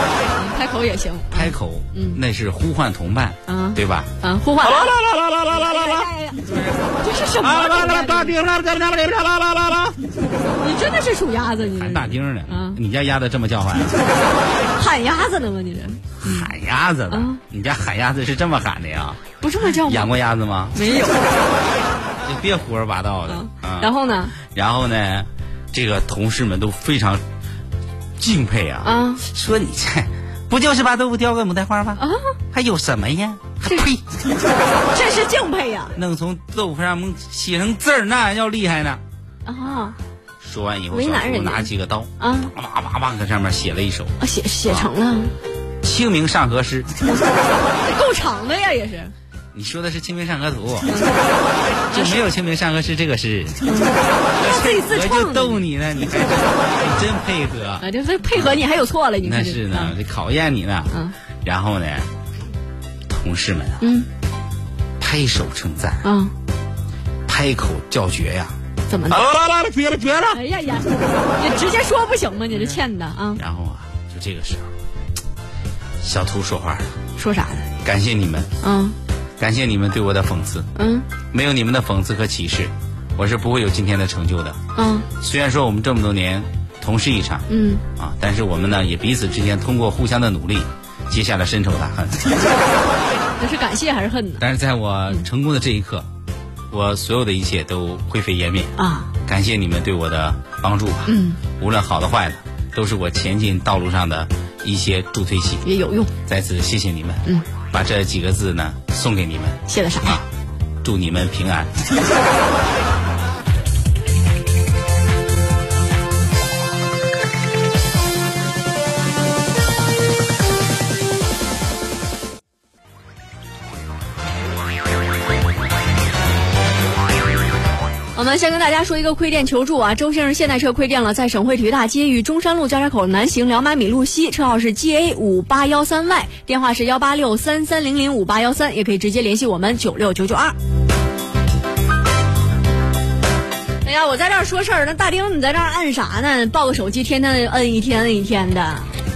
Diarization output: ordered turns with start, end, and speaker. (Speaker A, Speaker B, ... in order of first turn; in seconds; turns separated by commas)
Speaker A: 0.3-2.2, Speaker B: 1.3-6.8, Speaker A: 3.5-5.0, Speaker A: 5.5-6.4, Speaker A: 7.0-8.3, Speaker B: 7.4-10.0, Speaker A: 10.6-12.8, Speaker B: 11.6-14.0, Speaker A: 14.7-16.5, Speaker B: 16.2-20.8, Speaker A: 17.1-17.4, Speaker A: 19.4-20.1, Speaker A: 20.7-21.3, Speaker B: 22.2-23.9, Speaker A: 23.3-24.3, Speaker B: 24.4-27.2, Speaker B: 28.2-34.0, Speaker A: 28.8-29.2, Speaker A: 32.0-32.3, Speaker A: 34.9-35.9, Speaker B: 35.9-39.0, Speaker A: 39.5-40.0, Speaker B: 40.4-44.1, Speaker A: 40.9-42.5, Speaker A: 44.2-45.3, Speaker B: 44.7-44.9, Speaker B: 45.8-46.9, Speaker A: 47.0-49.1, Speaker B: 49.5-50.9, Speaker A: 50.8-51.2, Speaker B: 51.9-53.6, Speaker A: 51.9-52.3, Speaker A: 53.6-55.6, Speaker B: 54.4-58.6, Speaker A: 57.8-59.9, Speaker B: 59.2-60.9, Speaker A: 60.9-61.1, Speaker B: 61.4-62.1, Speaker B: 63.1-63.8, Speaker A: 63.8-64.1, Speaker B: 65.0-66.1, Speaker A: 66.0-66.3, Speaker B: 67.2-68.5, Speaker A: 68.9-69.2, Speaker B: 69.1-70.4, Speaker A: 70.3-73.4, Speaker B: 72.5-72.8, Speaker B: 73.4-74.7, Speaker B: 76.0-77.0, Speaker A: 77.2-77.7, Speaker B: 77.8-78.5, Speaker A: 78.6-78.9, Speaker B: 79.4-80.7, Speaker A: 80.7-81.1, Speaker B: 81.3-84.6, Speaker A: 84.7-85.1, Speaker B: 85.2-92.4, Speaker A: 87.5-87.8, Speaker A: 93.4-94.4, Speaker B: 94.4-96.0, Speaker B: 96.7-98.7, Speaker A: 98.8-99.1, Speaker B: 99.2-105.7, Speaker A: 101.0-101.4, Speaker A: 105.6-106.1, Speaker B: 106.3-110.2, Speaker A: 109.7-110.2, Speaker B: 110.8-111.7, Speaker A: 128.1-140.6, Speaker A: 143.8-148.9